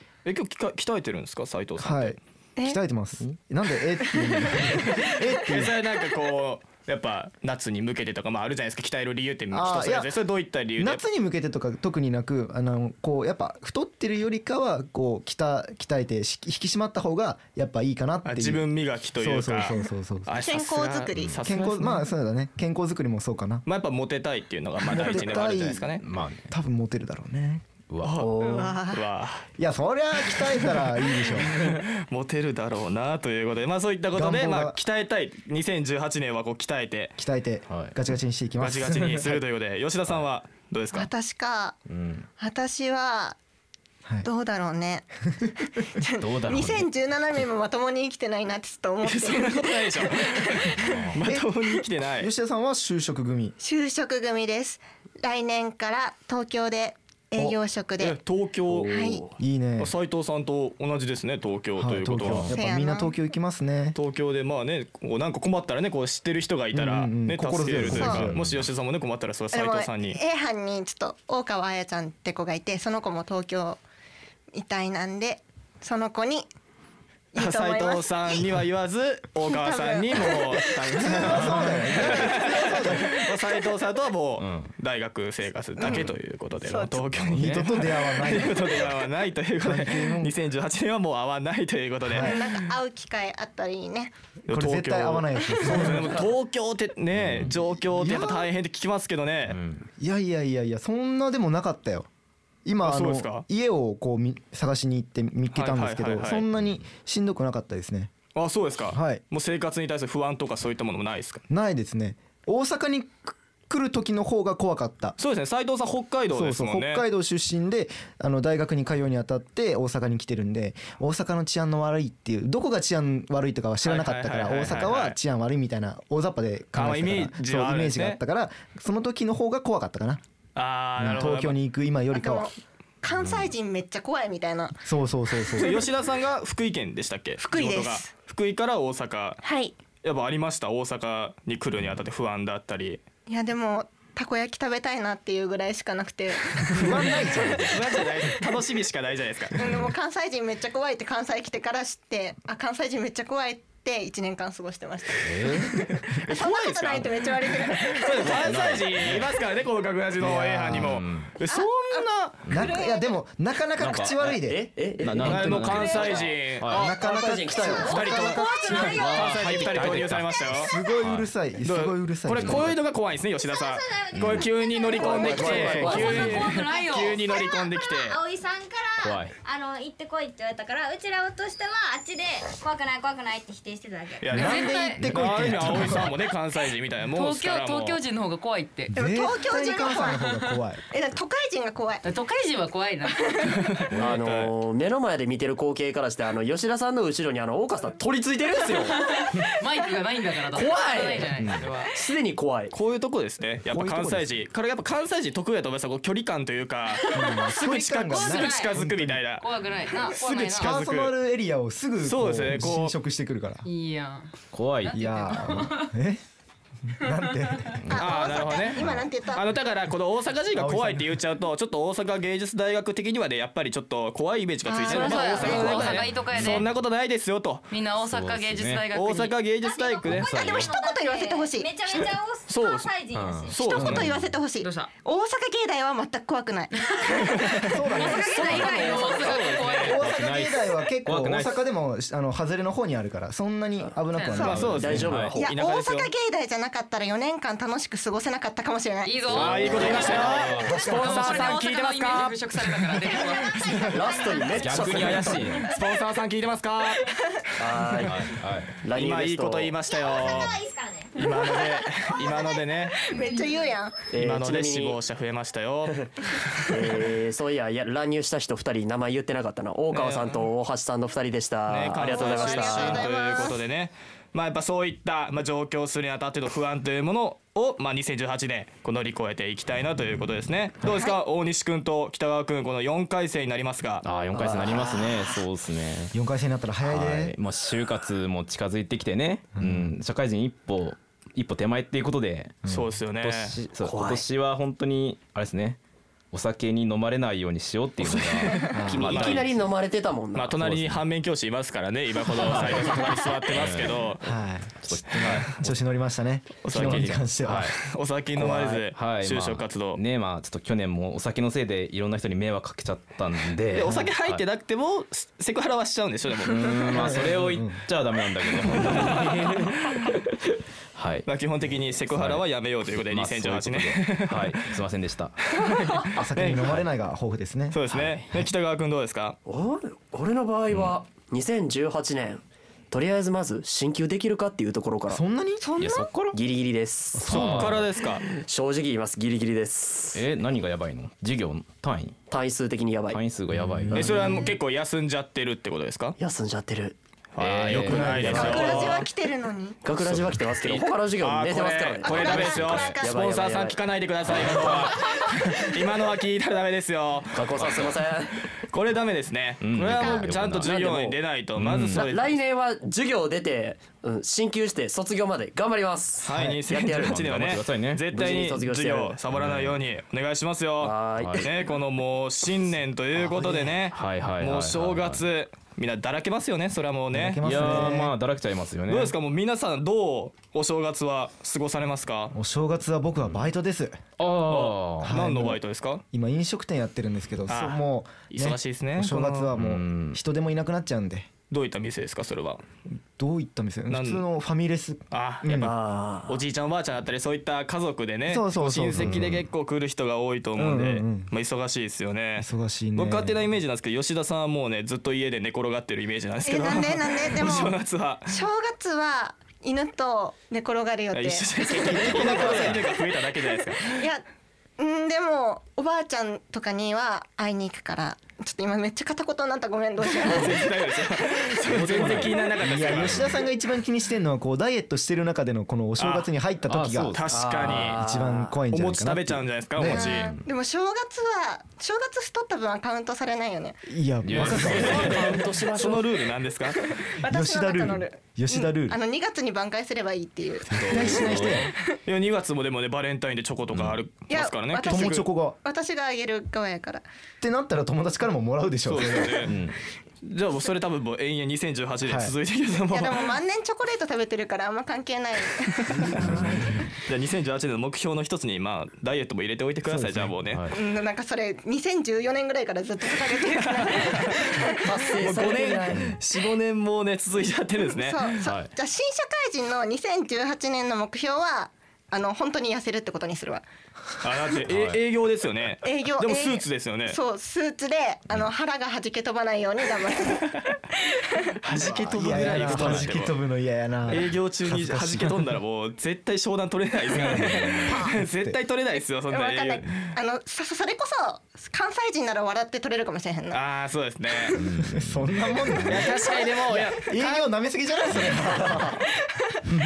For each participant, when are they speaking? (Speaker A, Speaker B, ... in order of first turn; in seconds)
Speaker A: 0.2-2.2, 4.7-11.0, 18.2-19.8, 20.2-22.1, 23.7-26.0, 28.0-29.4, 30.8-37.2, 38.6-41.1, 49.0-52.3, 58.0-59.0, 59.8-62.5, 63.9-70.2, 77.3-92.5, 94.5-99.6, 102.8-103.4, 105.5-106.4, 108.3-111.4, 115.2-117.0, 123.8-125.2, 126.7-128.2, 130.6-131.6, 135.6-139.4, 140.0-143.0, 147.6-149.6, 156.0-162.3, 165.2-166.9, 167.8-170.7, 171.7-178.2, 184.2-188.0, 193.8-194.5, 202.7-209.5, 210.1-211.1, 212.0-212.9, 217.9-227.7, 228.9-230.6, 232.5-232.9, 233.5-234.1, 239.0-239.9, 244.4-246.1, 249.3-252.4, 255.6-257.0, 258.9-260.6, 261.1-263.0, 264.1-266.1, 269.9-270.5, 271.7-284.1, 292.7-293.6, 298.0-299.5, 300.3-304.2, 306.6-310.0, 313.7-317.3, 318.7-320.1, 321.3-324.8, 325.5-326.8, 327.7-329.4, 337.3-338.3, 343.9-346.1, 347.3-349.1, 350.6-357.7, 358.6-362.4, 366.2-378.0, 378.9-382.3, 384.4-386.0, 387.5-389.5, 391.5-392.6, 393.9-394.2, 395.1-408.4, 411.1-414.1, 420.1-423.4, 426.0-426.3, 427.1-428.0, 428.7-430.4, 434.4-435.1, 435.6-436.9, 442.1-445.2, 448.9-449.6, 450.2-453.4, 455.8-456.5, 457.0-460.7, 463.5-464.4, 465.2-468.4, 474.2-477.2, 481.6-483.3, 484.1-490.0, 493.5-494.6, 495.9-497.4
Speaker B: 1.8-5.8, 9.5-10.1, 10.8-18.7, 19.2-20.4, 21.4-23.6, 24.9-27.6, 28.2-28.7, 29.6-31.5, 34.1-34.8, 37.2-39.4, 52.2-53.6, 59.4-59.9, 61.8-64.0, 66.7-68.4, 81.0-83.2, 87.3-88.8, 89.6-90.3, 92.0-92.4, 94.5-96.2, 97.9-98.5, 100.0-102.1, 102.7-108.1, 108.9-109.2, 111.5-115.2, 116.3-130.2, 131.0-132.5, 134.8-135.8, 146.7-147.8, 160.2-160.9, 162.5-166.0, 166.7-169.3, 170.5-172.8, 184.3-186.1, 188.9-190.8, 203.7-204.4, 207.1-209.2, 210.1-213.7, 214.9-216.2, 216.9-217.8, 220.6-221.2, 237.7-245.0, 250.7-251.3, 286.1-287.3, 289.6-289.9, 298.7-299.1, 304.2-307.7, 313.8-314.1, 316.9-317.8, 326.1-327.8, 335.1-335.7, 337.1-337.7, 343.5-344.4, 347.8-348.6, 377.1-378.1, 382.3-384.0, 385.0-385.6, 386.1-391.3, 393.2-395.7, 398.3-399.4, 400.6-401.3, 402.4-403.4, 411.9-412.7, 422.6-427.1, 428.0-430.1, 433.9-435.3, 437.2-439.0, 440.9-441.7, 444.9-445.6, 447.4-449.5, 452.1-452.3, 456.0-456.8, 459.9-460.3, 481.8-485.4, 487.9-488.6, 494.9-499.0
Speaker C: 20.4-21.3, 28.4-29.0, 40.9-41.8, 42.4-43.4, 44.2-45.0, 46.1-50.9, 53.6-58.2, 58.9-59.2, 62.5-63.1, 69.5-73.8, 74.5-76.5, 77.3-78.1, 79.5-81.3, 86.7-87.0, 92.2-94.1, 132.1-132.5, 133.0-134.8, 137.4-138.1, 139.4-139.7, 143.3-147.7, 149.6-155.6, 156.3-158.3, 161.5-163.1, 188.9-190.2, 190.9-192.0, 217.9-219.4, 224.7-226.1, 230.7-231.7, 233.8-236.7, 245.4-250.0, 261.3-261.7, 263.1-263.9, 272.1-273.6, 335.6-336.1, 348.4-349.8, 352.0-353.1, 359.9-360.3, 406.4-407.8, 408.3-412.8, 414.8-420.6, 429.9-433.8, 437.2-441.6, 444.3-447.0, 452.9-455.9, 460.7-464.9, 468.1-473.6, 475.8-480.5, 489.3-493.6
Speaker D: 26.0-26.5, 27.9-28.3, 37.7-37.9, 41.9-42.3, 46.2-46.9, 50.8-51.2, 62.2-62.6, 67.7-68.7, 84.4-84.7, 87.3-87.7, 97.2-97.6, 99.5-99.9, 133.1-133.5, 149.6-149.9, 155.2-156.0, 158.2-159.3, 160.3-161.3, 162.5-162.8, 163.8-164.4, 165.0-166.9, 168.9-171.3, 174.1-174.5, 176.1-176.4, 179.0-179.3, 185.1-186.0, 214.5-215.0, 217.8-219.1, 226.3-226.7, 228.0-228.8, 230.1-230.8, 233.1-234.4, 239.9-241.6, 244.4-245.3, 249.7-251.0, 254.6-255.7, 258.0-258.8, 284.0-286.1, 286.8-292.6, 293.2-295.8, 296.3-299.7, 300.6-301.0, 302.4-304.2, 304.8-305.8, 306.7-307.8, 308.3-314.4, 316.4-320.1, 320.9-321.3, 322.0-326.8, 327.9-328.4, 330.7-331.0, 335.8-336.4, 337.3-337.8, 340.1-342.2, 343.1-344.3, 347.4-349.0, 349.9-350.4, 352.1-353.0, 354.3-354.9, 357.5-358.0, 359.6-360.9, 361.6-362.1, 366.9-368.1, 369.3-369.8, 371.2-371.4, 373.9-375.2, 377.4-379.1, 384.2-385.2, 389.5-390.2, 399.0-399.4, 421.7-423.4, 426.7-428.0, 434.2-435.4, 440.7-441.7, 443.7-444.0, 449.4-449.8, 456.1-456.8, 460.4-460.8, 468.4-468.7, 474.7-475.0, 482.7-483.1, 487.2-487.9, 494.5-496.1, 498.2-498.4
Speaker E: 58.7-59.4, 164.4-166.2, 166.9-168.0, 174.9-176.3, 193.9-199.0, 200.5-202.7, 244.6-245.5, 253.9-255.5, 257.6-258.2, 258.8-259.8, 264.1-265.0, 266.7-273.0, 284.3-285.4, 293.8-294.2, 298.8-300.6, 329.4-335.2, 336.3-337.7, 338.2-340.2, 342.3-343.2, 346.2-347.0, 347.7-348.8, 349.8-354.9, 357.3-358.5, 360.6-361.2, 361.9-367.2, 368.1-369.2, 370.8-371.5, 373.2-373.8, 395.6-396.4, 427.3-428.6, 434.4-436.1, 464.8-466.1
Speaker F: 168.1-170.7, 173.4-184.3, 229.6-233.9, 237.9-239.3, 249.8-250.7, 253.6-255.2, 259.8-261.2, 263.2-263.6
Speaker G: 168.4-169.0, 175.9-177.2, 184.3-185.2, 187.0-188.9, 190.2-190.6, 192.0-193.8, 198.8-201.9, 206.9-208.8, 209.4-210.7, 213.7-215.9, 224.7-226.7, 227.7-229.3, 234.6-234.9, 237.9-240.1, 244.1-244.7, 249.0-254.3